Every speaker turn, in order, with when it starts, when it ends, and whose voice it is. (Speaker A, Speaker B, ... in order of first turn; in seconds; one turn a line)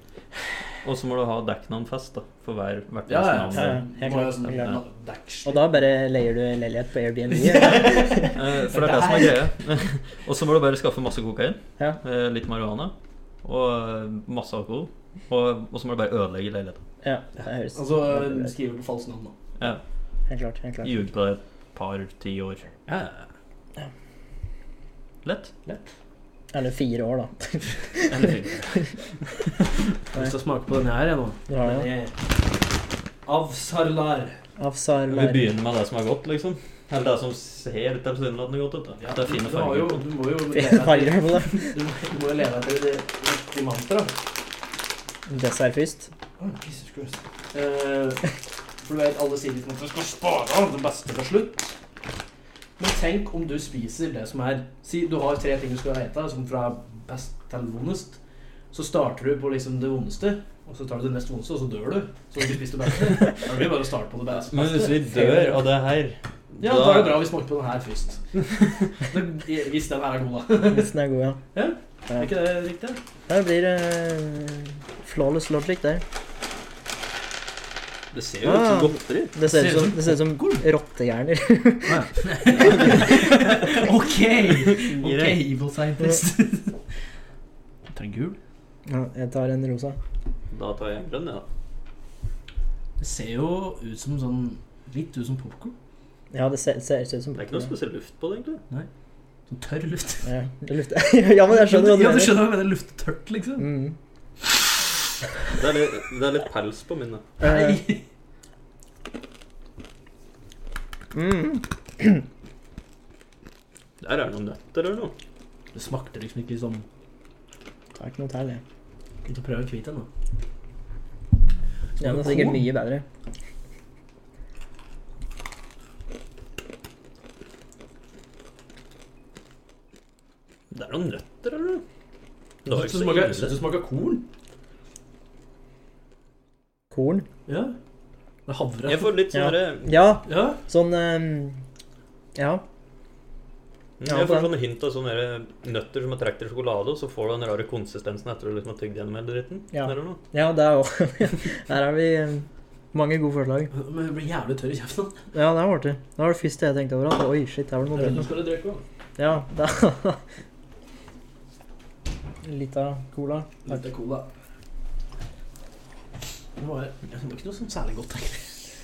Speaker A: 0.8-3.8
Speaker B: 3.1-5.8
Speaker C: 3.5-4.8
Speaker C: 5.5-8.3
Speaker B: 7.3-9.4
Speaker A: 8.3-12.9
Speaker A: 13.4-16.8
Speaker C: 17.0-18.5
Speaker B: 17.7-19.4
Speaker C: 20.3-21.0
Speaker A: 20.8-22.7
Speaker B: 22.9-23.3
Speaker A: 25.2-25.5
Speaker C: 26.5-28.9
Speaker A: 28.1-28.7
Speaker B: 28.1-28.5
Speaker B: 30.1-32.3
Speaker C: 31.5-31.9
Speaker B: 33.3-34.4
Speaker C: 34.6-35.5
Speaker A: 35.1-40.0
Speaker B: 39.0-44.1
Speaker C: 40.5-41.7
Speaker C: 45.3-46.1
Speaker B: 46.4-48.3
Speaker B: 48.8-51.8
Speaker B: 52.8-58.2
Speaker B: 58.7-65.0
Speaker A: 64.5-67.3
Speaker C: 65.1-65.6
Speaker B: 66.6-68.4
Speaker A: 68.4-68.9
Speaker B: 69.0-70.9
Speaker C: 70.7-71.4
Speaker B: 71.5-73.0
Speaker C: 73.3-76.0
Speaker B: 78.2-78.8
Speaker A: 78.3-79.3
Speaker C: 78.4-83.1
Speaker B: 79.4-80.6
Speaker B: 81.9-86.8
Speaker A: 82.7-83.8
Speaker A: 84.5-85.4
Speaker B: 87.9-88.4
Speaker C: 88.9-90.0
Speaker A: 90.5-91.5
Speaker B: 93.0-95.8
Speaker C: 96.3-97.7
Speaker A: 97.4-98.6
Speaker B: 99.5-100.3
Speaker C: 100.2-102.5
Speaker B: 101.5-103.7
Speaker C: 103.6-104.0
Speaker A: 105.5-107.3
Speaker C: 107.4-107.8
Speaker B: 107.4-108.0
Speaker C: 111.1-112.2
Speaker A: 114.0-115.1
Speaker B: 115.7-116.8
Speaker C: 118.0-118.6
Speaker B: 119.3-120.1
Speaker B: 122.0-122.7
Speaker C: 122.0-123.0
Speaker A: 130.7-131.8
Speaker A: 132.7-133.6
Speaker B: 132.7-134.3
Speaker C: 136.9-137.3
Speaker B: 137.5-137.8
Speaker B: 138.5-139.2
Speaker A: 138.8-140.0
Speaker C: 139.3-141.6
Speaker B: 140.3-140.6
Speaker C: 142.3-142.6
Speaker A: 144.0-150.2
Speaker C: 144.1-144.5
Speaker C: 149.7-153.7
Speaker B: 153.7-155.2
Speaker C: 155.3-158.3
Speaker B: 157.9-158.8
Speaker C: 159.2-160.2
Speaker C: 162.4-163.7
Speaker B: 163.7-164.3
Speaker B: 166.6-168.5